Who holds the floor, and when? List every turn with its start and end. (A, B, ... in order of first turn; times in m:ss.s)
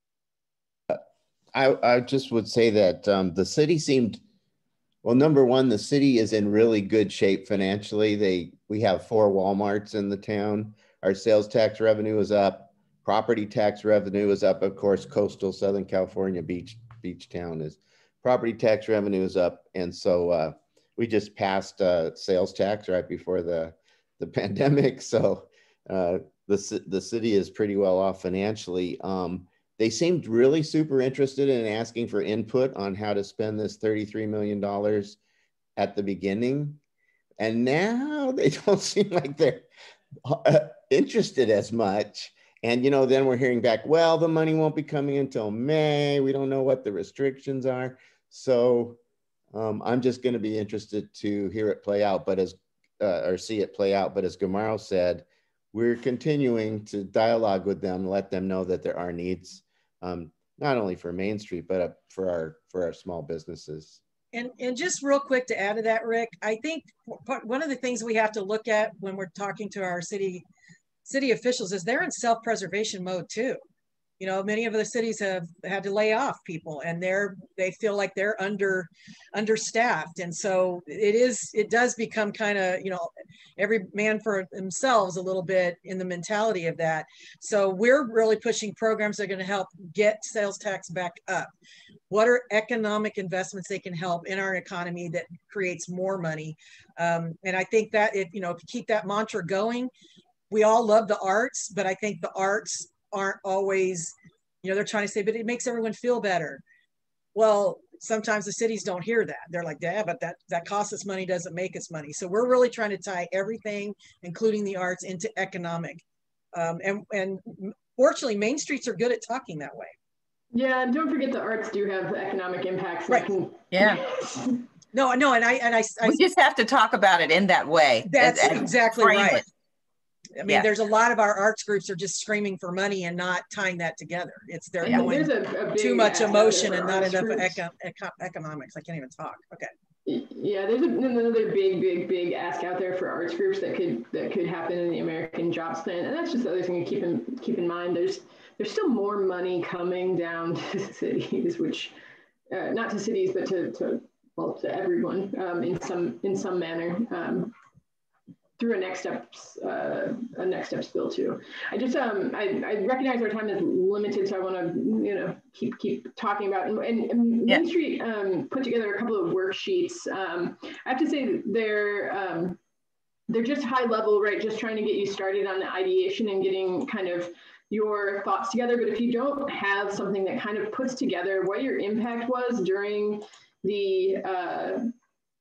0:01.5-0:04.2 A
0:05.0-0:35.2 A
0:35.8-0:36.8 A
0:37.4-0:39.7 A
0:40.2-1:04.0 A
1:04.3-1:10.4 B
1:11.0-1:13.6 B
1:14.2-1:31.5 B
1:32.1-1:39.9 B
1:40.5-1:46.6 B
1:47.3-1:56.0 B
1:56.5-1:59.9 B
2:00.5-2:04.6 C
2:03.7-2:04.0 D
2:04.9-2:06.2 B
2:06.0-2:09.4 D
2:08.0-2:09.4 B
2:10.4-2:19.7 B
2:10.4-2:10.7 D
2:14.8-2:17.6 C
2:20.0-2:31.9 C
2:32.5-2:37.5 C
2:38.6-2:52.6 C
2:53.3-3:04.9 C